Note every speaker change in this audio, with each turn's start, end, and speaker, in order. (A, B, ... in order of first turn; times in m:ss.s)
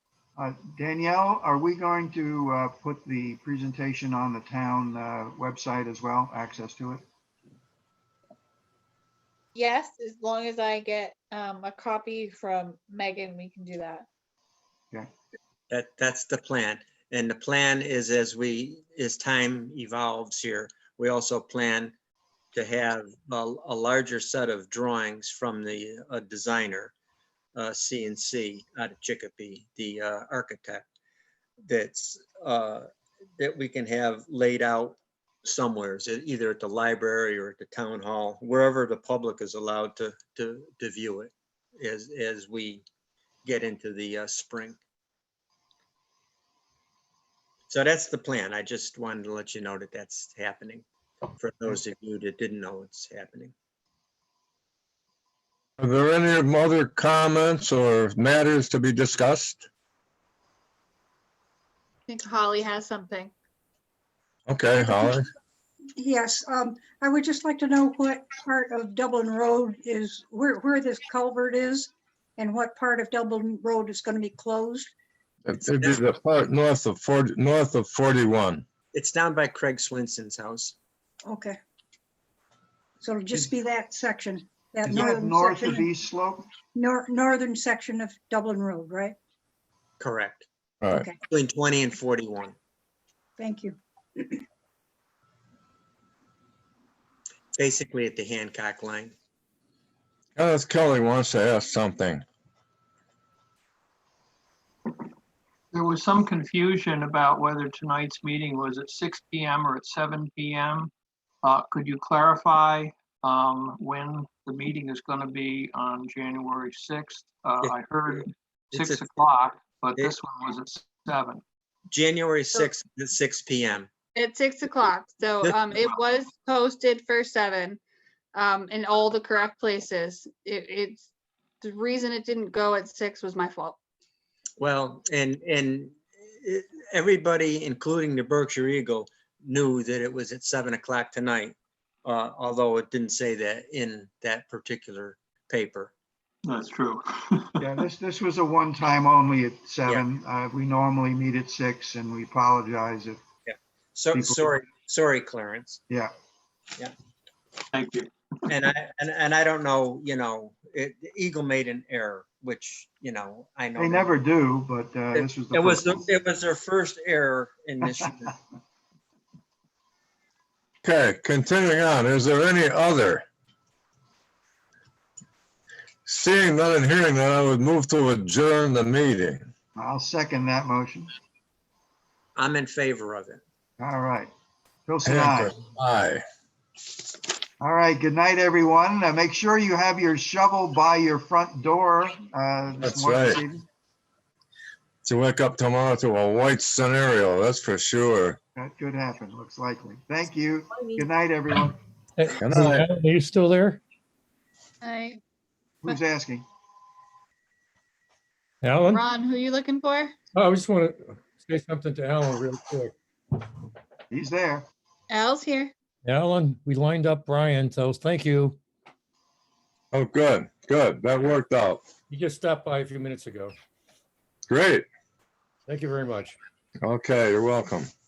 0:00.4-0:07.0 A
0:09.5-0:14.0 B
0:15.7-0:21.9 C
0:22.5-0:26.9 C
0:27.6-0:30.8 C
0:31.6-0:42.8 C
0:43.4-0:44.8 C
0:47.7-0:50.8 C
0:51.4-0:53.5 C
0:55.8-0:59.6 D
1:02.1-1:03.3 B
1:04.5-1:05.3 D
1:06.0-1:14.9 E
1:15.4-1:18.6 D
1:18.9-1:20.8 C
1:21.2-1:21.6 E
1:23.0-1:25.8 E
1:24.9-1:26.4 A
1:26.7-1:29.2 E
1:30.0-1:30.5 C
1:30.8-1:31.1 D
1:31.3-1:32.6 C
1:33.4-1:34.4 E
1:37.6-1:39.1 C
1:40.4-1:42.2 D
1:45.7-1:50.9 F
1:51.4-2:01.4 F
1:58.7-1:59.0 C
2:01.9-2:03.9 C
2:04.1-2:07.8 B
2:08.3-2:11.1 B
2:11.6-2:13.8 B
2:14.6-2:25.9 C
2:26.4-2:27.7 F
2:27.6-2:33.2 A
2:33.4-2:35.8 C
2:34.1-2:34.4 A
2:37.7-2:38.1 F
2:38.5-2:44.2 C
2:43.8-2:46.0 A
2:45.1-2:48.4 C
2:50.8-2:53.2 D
2:56.0-2:59.4 D
2:59.8-3:01.1 A
3:02.4-3:03.4 C
3:03.8-3:04.3 A
3:04.8-3:05.5 A
3:05.0-3:06.2 D
3:07.6-3:13.6 A
3:12.8-3:13.4 D
3:15.0-3:18.4 D
3:18.6-3:21.8 A
3:22.2-3:23.8 G
3:22.4-3:22.9 D
3:24.8-3:25.2 B
3:25.8-3:26.4 A
3:28.6-3:29.0 G
3:28.9-3:30.1 B
3:30.3-3:32.9 G
3:34.1-3:34.6 A
3:35.1-3:35.7 B
3:36.0-3:38.6 G
3:39.9-3:41.8 D
3:42.1-3:43.5 G
3:44.5-3:44.8 D
3:45.7-3:46.4 G
3:46.8-3:47.9 D